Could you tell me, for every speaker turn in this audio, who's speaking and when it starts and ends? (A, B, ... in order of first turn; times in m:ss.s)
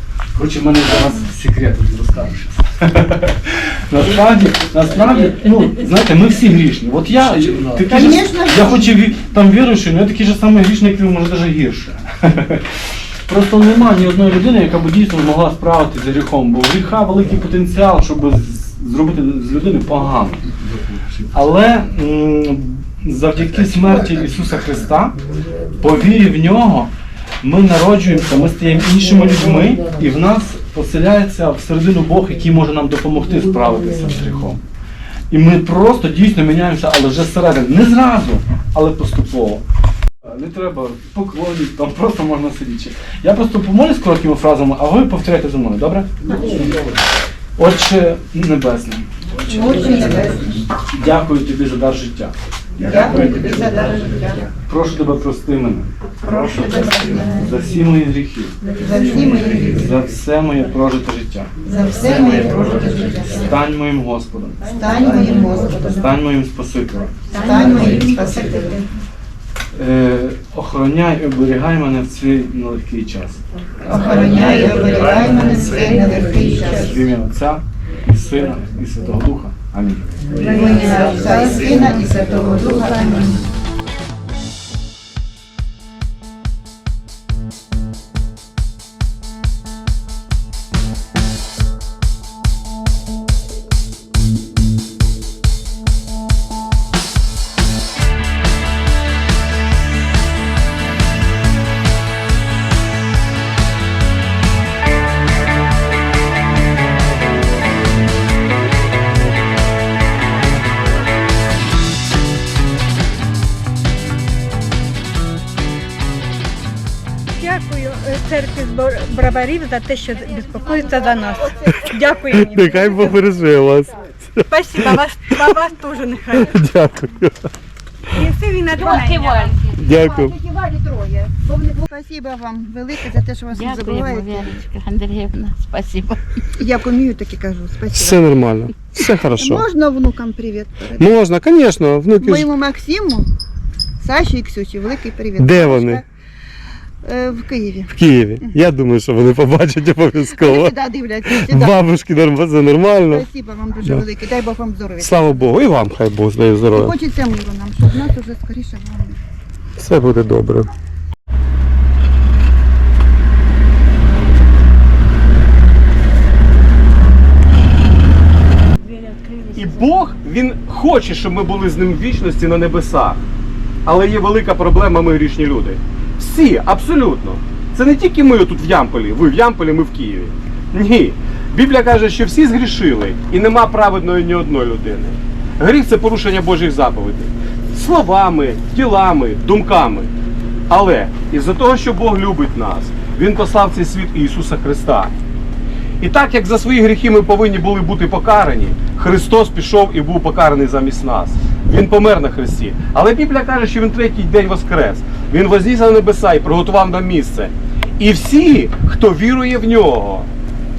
0:00.3-0:12.7 A
0:07.9-0:08.9 B
0:13.3-0:20.4 A
0:21.3-0:25.2 A
0:25.8-0:34.6 A
0:35.3-0:39.6 A
0:40.2-0:46.1 A
0:47.6-0:49.1 A
0:49.4-0:50.6 B
0:50.9-0:52.3 A
0:52.8-0:54.5 B
0:54.6-0:55.9 A
0:56.2-0:57.3 B
0:57.3-1:01.5 A
0:58.8-0:59.7 B
1:01.6-1:03.4 B
1:03.3-1:04.6 A
1:04.7-1:05.9 B
1:05.9-1:07.1 A
1:07.3-1:08.8 B
1:09.7-1:13.4 A
1:13.8-1:16.9 B
1:16.8-1:20.1 A
1:20.4-1:23.4 B
1:57.4-2:03.1 C
2:01.8-2:05.4 D
2:04.5-2:06.5 C
2:06.3-2:07.5 D
2:08.2-2:08.7 C
2:08.7-2:09.8 E
2:08.8-2:14.6 B
2:09.8-2:10.3 D
2:13.5-2:16.2 E
2:16.6-2:18.2 B
2:17.9-2:19.6 D
2:19.3-2:21.1 B
2:21.0-2:22.5 D
2:22.2-2:23.3 B
2:24.0-2:26.0 B
2:25.4-2:26.0 D
2:27.0-2:28.5 B
2:27.9-2:30.7 D
2:30.4-2:31.8 B
2:31.2-2:33.2 D
2:33.1-2:35.5 B
2:35.0-2:36.9 D
2:36.7-2:39.2 B
2:39.8-2:40.7 D
2:49.5-2:53.2 D
2:53.8-3:10.1 D
3:10.7-3:15.1 D
3:16.0-3:30.3 D